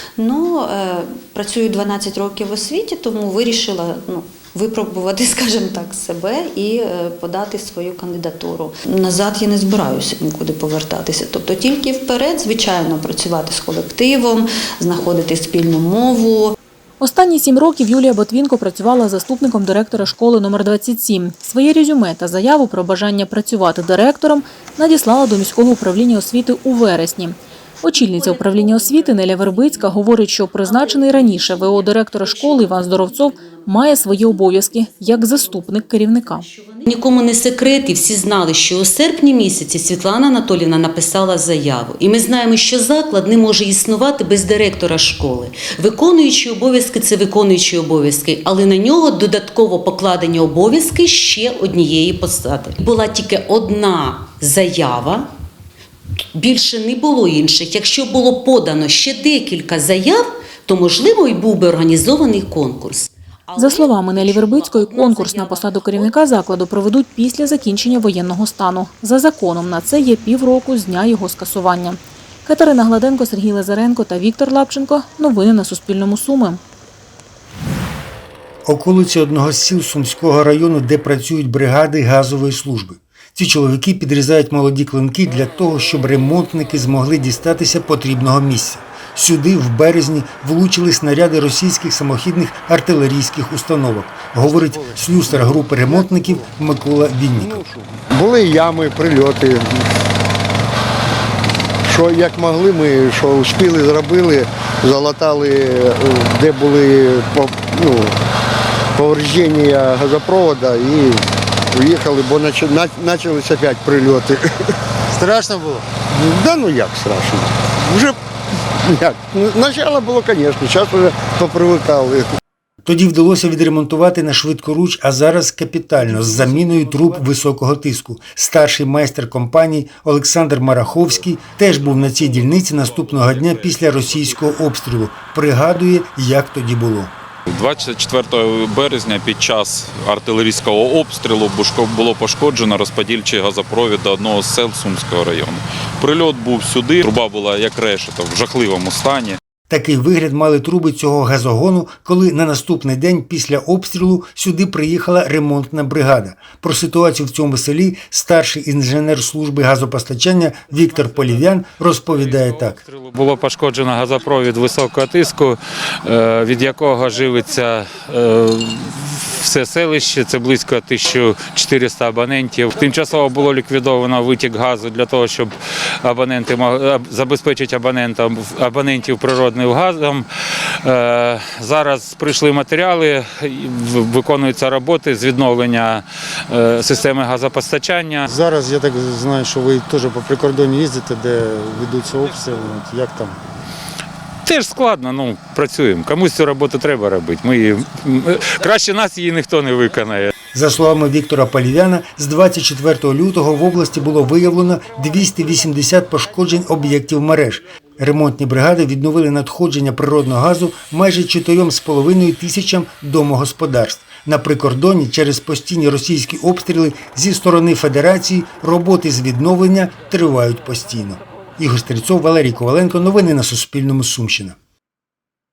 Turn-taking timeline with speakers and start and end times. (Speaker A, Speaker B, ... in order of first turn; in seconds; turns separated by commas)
Speaker A: 0.2-16.4, Speaker B: 17.0-36.5, Speaker C: 36.9-55.2, Speaker C: 56.4-63.6, Speaker B: 63.5-76.6, Speaker D: 78.7-97.6, Speaker E: 95.9-96.2, Speaker E: 97.4-99.6, Speaker E: 101.8-108.1, Speaker E: 109.0-111.2, Speaker E: 111.7-114.4, Speaker F: 115.4-115.8, Speaker E: 116.2-118.2, Speaker E: 118.9-122.2, Speaker D: 122.8-137.1, Speaker G: 137.6-149.3, Speaker D: 149.7-162.8, Speaker H: 162.3-180.2, Speaker H: 180.8-188.3, Speaker F: 188.3-193.4, Speaker H: 194.4-200.3, Speaker D: 200.5-224.6